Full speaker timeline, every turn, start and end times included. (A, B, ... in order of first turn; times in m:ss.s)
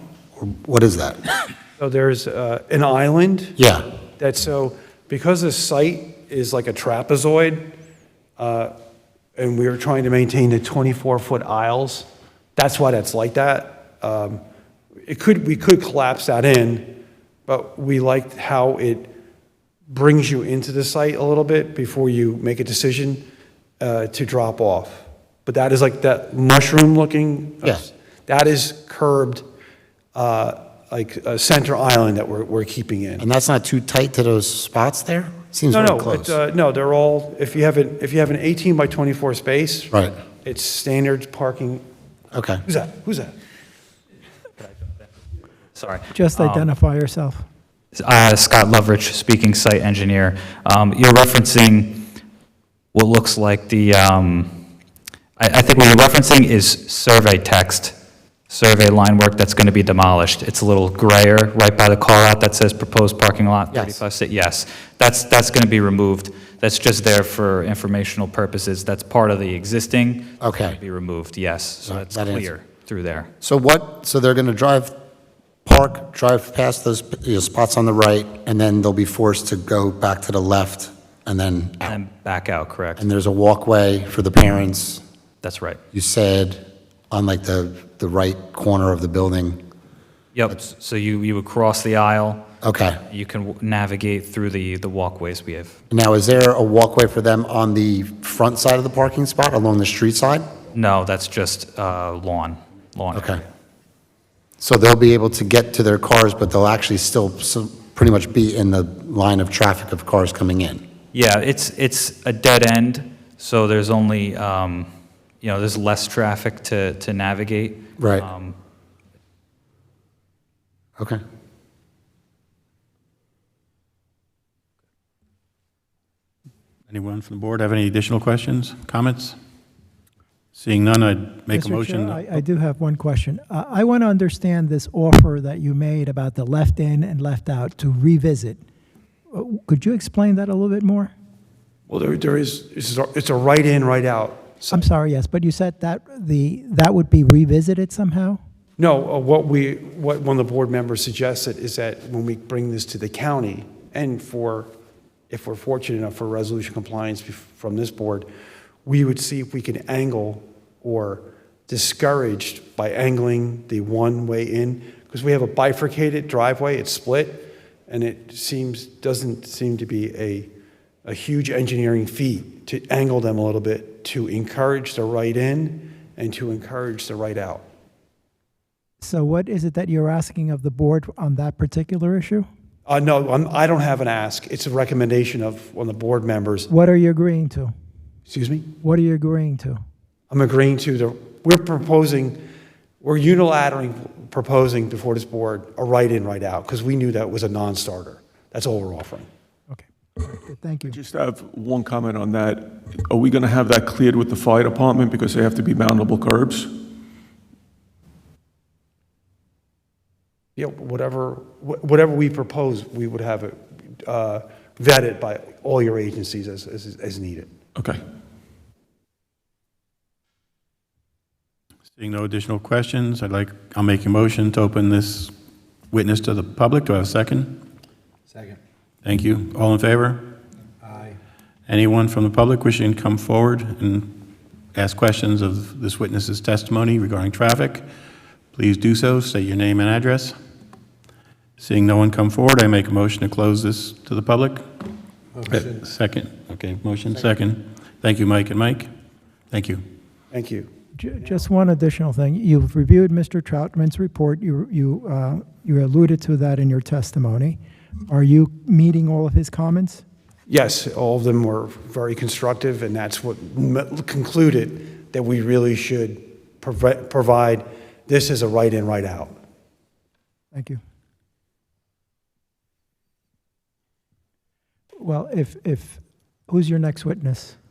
0:00.4-0:01.2 A
0:01.8-0:03.5 B
0:03.6-0:03.8 A
0:04.2-0:07.7 B
0:08.4-0:08.7 B
0:09.4-0:14.4 B
0:15.1-0:19.1 B
0:19.9-0:23.2 B
0:23.8-0:29.4 B
0:30.1-0:33.2 B
0:33.2-0:36.4 A
0:35.7-0:39.9 B
0:40.4-0:41.8 B
0:42.3-0:42.6 A
0:42.7-0:43.3 B
0:45.7-0:46.8 C
0:46.1-0:47.4 D
0:47.9-0:52.0 C
0:52.9-0:54.5 C
0:55.4-0:57.9 C
0:58.5-1:13.3 C
1:03.7-1:04.0 A
1:10.4-1:10.8 A
1:11.8-1:12.5 A
1:13.4-1:14.9 A
1:15.6-1:22.0 A
1:21.8-1:23.0 C
1:23.0-1:25.0 A
1:25.4-1:25.8 C
1:25.9-1:29.6 A
1:30.3-1:32.4 C
1:32.6-1:33.0 A
1:33.1-1:35.8 C
1:35.9-1:40.5 A
1:40.7-1:43.4 C
1:43.1-1:43.4 A
1:44.6-1:50.8 A
1:51.1-1:54.9 C
1:55.4-1:58.5 C
1:58.0-1:58.2 A
2:06.9-2:09.4 E
2:10.5-2:12.4 E
2:11.5-2:18.6 D
2:19.3-2:21.1 D
2:21.9-2:24.9 B
2:24.7-2:28.4 D
2:28.8-2:34.7 B
2:35.3-2:38.3 B
2:38.8-2:50.5 B
2:51.0-2:57.6 B
2:59.0-3:02.5 D
3:02.8-3:06.7 B
3:06.7-3:07.7 D
3:08.3-3:08.7 B
3:08.8-3:09.8 D
3:10.3-3:12.4 B
3:13.0-3:19.3 B
3:19.7-3:21.0 D
3:20.9-3:26.8 F
3:30.6-3:37.5 B
3:37.8-3:38.0 F
3:42.0-3:45.3 E
3:45.9-3:47.6 E
3:49.0-3:50.2 E
3:51.7-3:54.1 E
3:54.7-3:57.8 E
3:58.5-4:00.3 E
4:01.6-4:04.6 E
4:05.4-4:08.9 E
4:09.5-4:09.8 E
4:10.3-4:10.7 B
4:11.0-4:20.0 D
4:20.5-4:29.3 B
4:30.5-4:30.8 D
4:35.0-4:37.6 D